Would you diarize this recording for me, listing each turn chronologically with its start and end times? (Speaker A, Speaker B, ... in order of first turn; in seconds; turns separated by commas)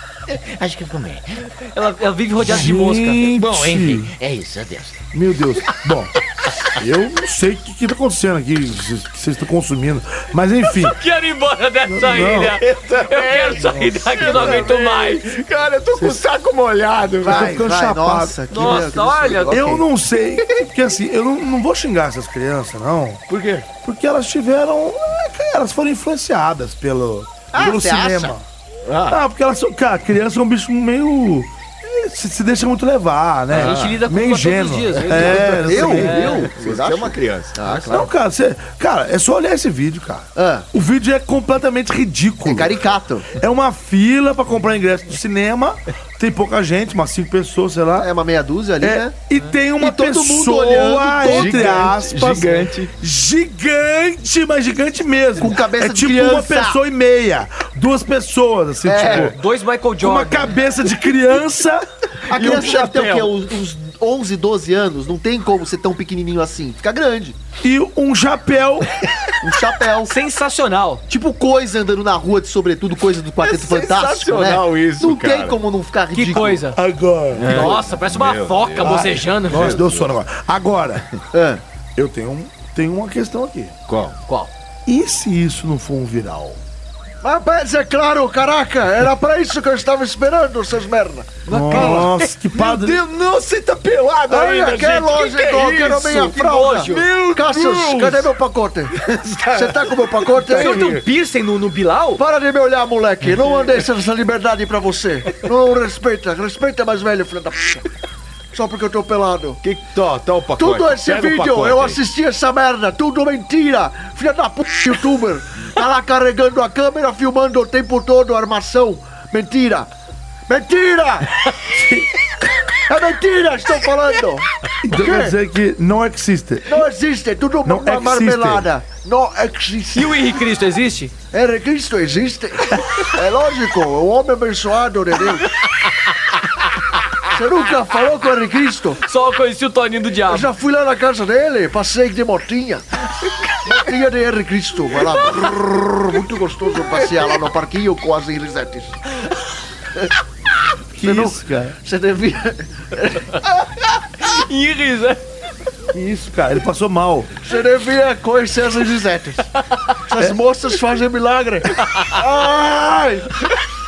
Speaker A: 0.3-1.4, Speaker B: 1.7-3.2, Speaker A: 2.4-2.8, Speaker C: 2.4-4.1, Speaker A: 3.4-5.0, Speaker C: 5.1-6.1, Speaker C: 6.8-11.0, Speaker B: 10.7-15.3, Speaker C: 11.9-12.6, Speaker D: 12.3-17.6, Speaker C: 14.2-14.7, Speaker C: 17.2-18.9, Speaker E: 17.2-19.9, Speaker B: 18.5-19.6, Speaker C: 19.5-23.2, Speaker D: 23.3-23.7, Speaker C: 23.8-28.5, Speaker E: 27.5-28.3, Speaker D: 28.8-29.2, Speaker C: 29.1-36.3, Speaker D: 33.5-34.0, Speaker B: 33.5-36.4, Speaker D: 35.0-38.0, Speaker E: 35.2-38.1, Speaker C: 37.9-42.8, Speaker E: 40.4-40.7, Speaker E: 42.5-43.3, Speaker C: 43.4-48.1, Speaker E: 48.0-49.1, Speaker C: 48.8-59.4, Speaker E: 49.8-51.9, Speaker D: 51.2-52.9, Speaker E: 55.4-56.8, Speaker E: 58.9-59.3, Speaker B: 59.1-60.5, Speaker C: 60.0-61.9, Speaker E: 62.3-67.4, Speaker D: 62.3-63.4, Speaker C: 67.6-68.9, Speaker E: 69.4-70.1, Speaker B: 70.1-71.0, Speaker E: 71.1-76.6, Speaker D: 73.4-75.6, Speaker B: 76.1-76.8, Speaker C: 76.7-77.7, Speaker D: 77.3-80.2, Speaker B: 77.5-79.8, Speaker C: 78.8-81.1, Speaker E: 81.3-81.6, Speaker C: 82.0-83.7, Speaker D: 83.9-84.2, Speaker C: 84.9-86.6, Speaker E: 87.2-92.0, Speaker D: 91.5-98.3, Speaker C: 91.5-93.0, Speaker B: 91.5-92.0, Speaker E: 94.3-99.0, Speaker B: 96.2-97.0, Speaker D: 98.9-101.0, Speaker E: 99.5-100.9, Speaker B: 100.5-102.2, Speaker E: 102.2-107.9, Speaker D: 103.3-103.8, Speaker E: 108.5-109.6, Speaker D: 109.6-112.0, Speaker E: 110.6-119.9, Speaker E: 120.5-121.3, Speaker C: 121.7-122.1, Speaker E: 122.8-125.3, Speaker C: 124.8-126.8, Speaker E: 126.7-130.3, Speaker C: 127.7-128.7, Speaker B: 129.9-131.1, Speaker E: 131.3-135.5, Speaker E: 137.3-139.0, Speaker B: 139.0-140.5, Speaker E: 140.3-142.9, Speaker E: 143.6-149.0, Speaker C: 150.9-151.8, Speaker E: 151.0-153.8, Speaker B: 154.2-155.2, Speaker C: 155.9-157.3, Speaker E: 157.4-159.5, Speaker B: 159.6-160.0, Speaker E: 160.1-163.3, Speaker B: 161.7-162.2